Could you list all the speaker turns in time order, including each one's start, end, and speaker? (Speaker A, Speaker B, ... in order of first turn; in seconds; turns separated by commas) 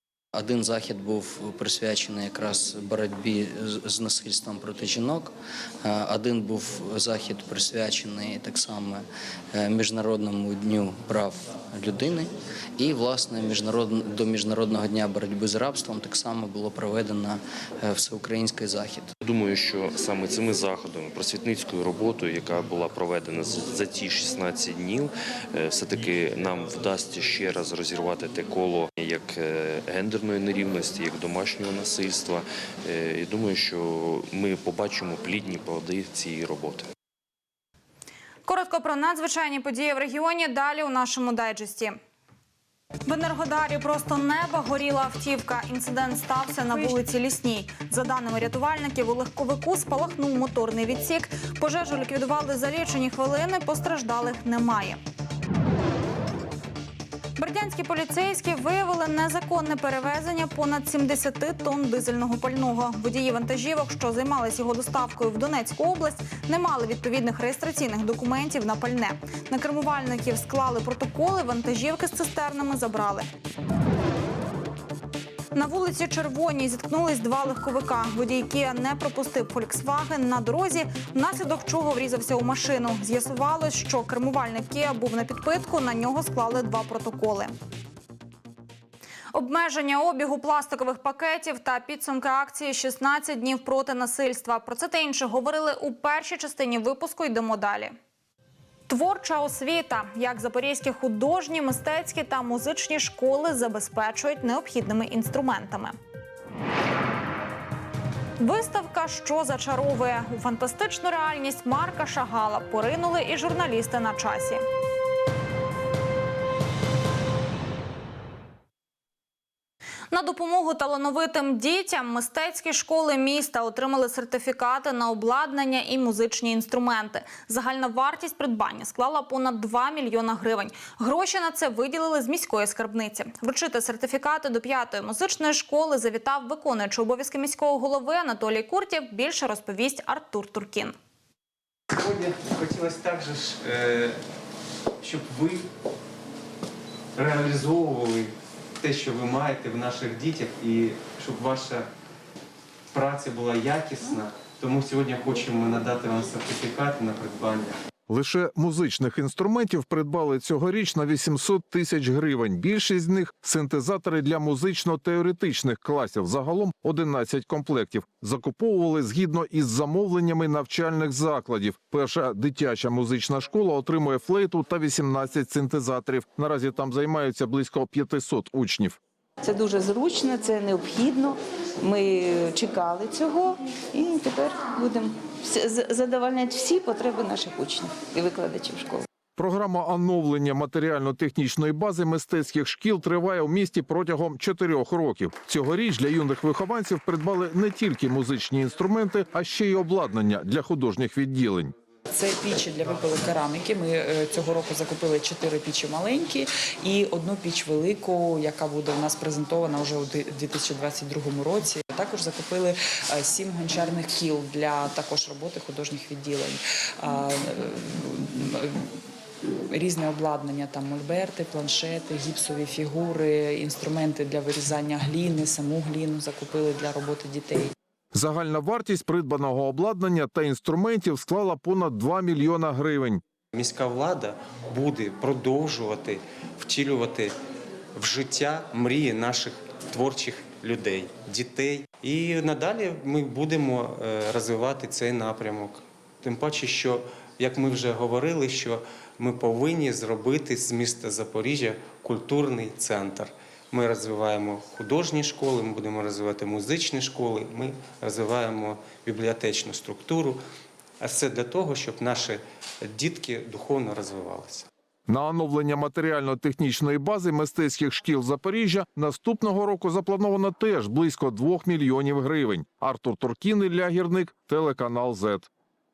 Speaker A: 0.3-19.1, Speaker B: 19.2-36.9, Speaker C: 38.5-42.0, Speaker C: 43.0-55.0, Speaker C: 57.4-73.3, Speaker C: 75.5-87.5, Speaker C: 89.3-97.9, Speaker C: 98.9-106.0, Speaker C: 108.4-114.6, Speaker C: 120.1-140.9, Speaker D: 141.9-144.2, Speaker D: 145.0-145.7, Speaker D: 147.2-151.8, Speaker D: 152.9-157.8, Speaker E: 158.1-179.0, Speaker F: 179.4-189.0, Speaker E: 189.3-201.7, Speaker G: 202.1-218.9, Speaker G: 219.7-227.7, Speaker E: 228.1-233.2, Speaker D: 233.5-237.3, Speaker D: 237.9-260.4, Speaker D: 261.0-264.7, Speaker E: 265.1-275.5